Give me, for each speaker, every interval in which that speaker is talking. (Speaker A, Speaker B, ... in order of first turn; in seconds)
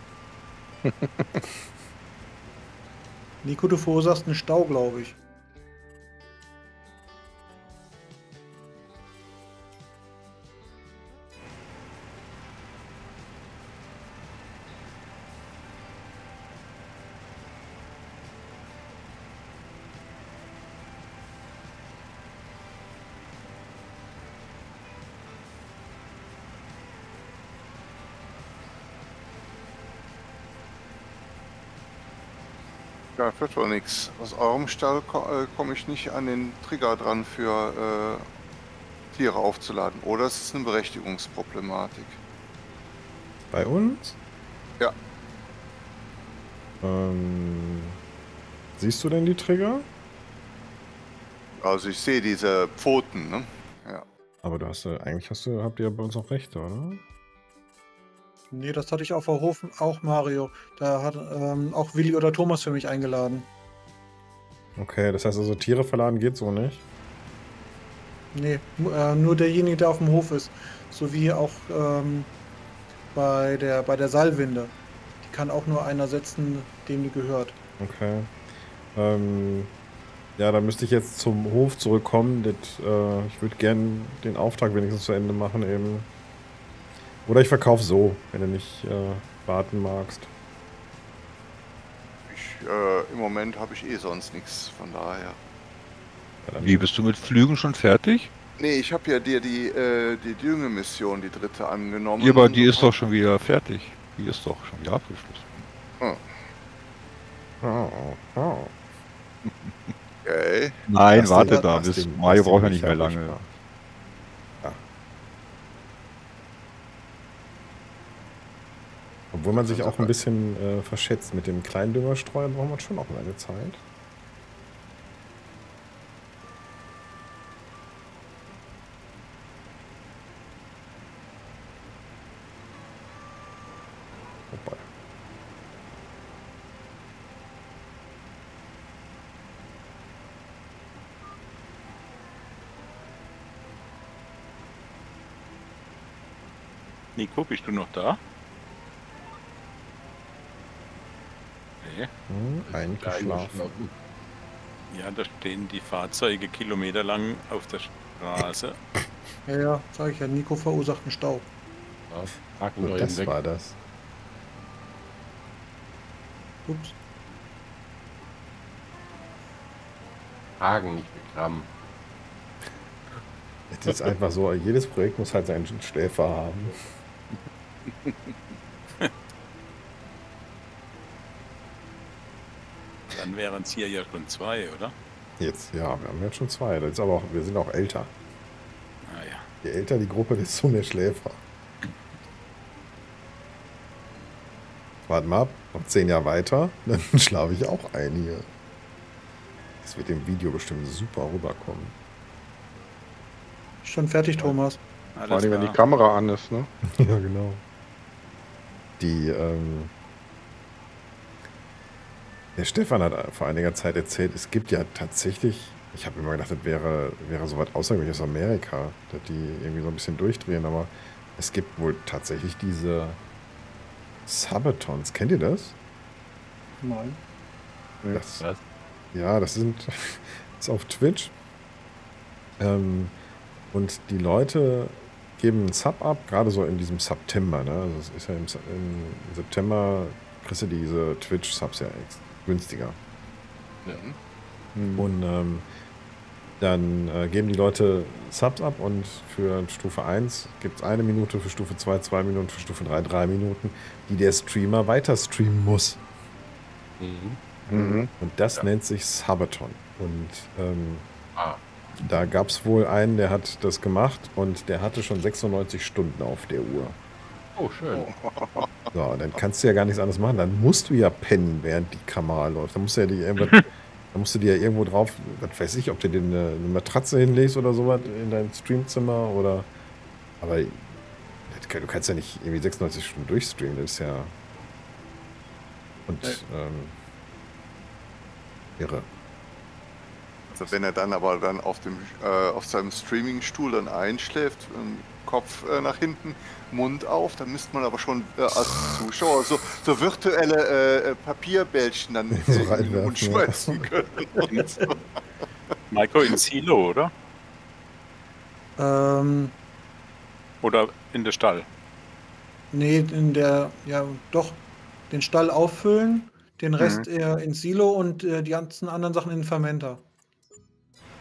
Speaker A: 0.8-1.4, 205.2-206.7, 228.0-228.3, 244.7-245.1, 257.7-258.1
Speaker B: 3.4-5.2, 58.5-63.5, 68.3-72.3, 73.1-77.5, 111.4-111.7, 159.4-161.5, 166.7-166.9, 203.8-204.8, 226.8-227.2, 308.8-309.5, 312.7-320.0
Speaker C: 33.2-38.2, 39.1-42.2, 51.6-54.0, 92.3-95.4, 98.6-102.9, 106.0-106.3, 110.2-110.8, 119.6-120.0, 243.9-244.2, 267.9-268.7, 290.5-305.0
Speaker D: 43.5-44.2, 46.8-48.0, 48.8-49.9, 54.4-57.0, 64.8-66.8, 77.8-78.3, 78.9-79.7, 80.4-86.1, 87.2-90.3, 96.4-96.8, 107.6-108.7, 111.1-113.5, 119.3-123.8, 134.5-134.9, 152.3-153.7, 162.8-163.8, 173.7-176.8, 185.4-188.1, 189.6-191.4, 195.1-198.5, 199.8-201.9, 206.8-207.6, 209.0-209.9, 212.6-223.2, 224.2-225.8, 228.1-228.4, 229.1-231.3, 232.6-233.1, 233.7-243.0, 245.0-245.7, 246.6-256.0, 258.2-261.1, 262.0-267.0, 268.9-279.7, 280.4-280.9, 281.5-284.3, 286.1-286.9, 288.8-289.1, 302.4-303.9
Speaker E: 96.6-98.3, 102.2-105.7, 109.4-109.7, 110.9-113.3
Speaker F: 147.2-148.2, 151.8-152.1, 154.9-158.8, 183.1-184.9, 189.0-189.4, 205.2-205.8, 305.9-307.1, 310.6-311.7
Speaker G: 152.6-153.9, 162.1-163.4, 170.6-171.7, 228.3-228.6, 257.0-257.4, 267.6-268.1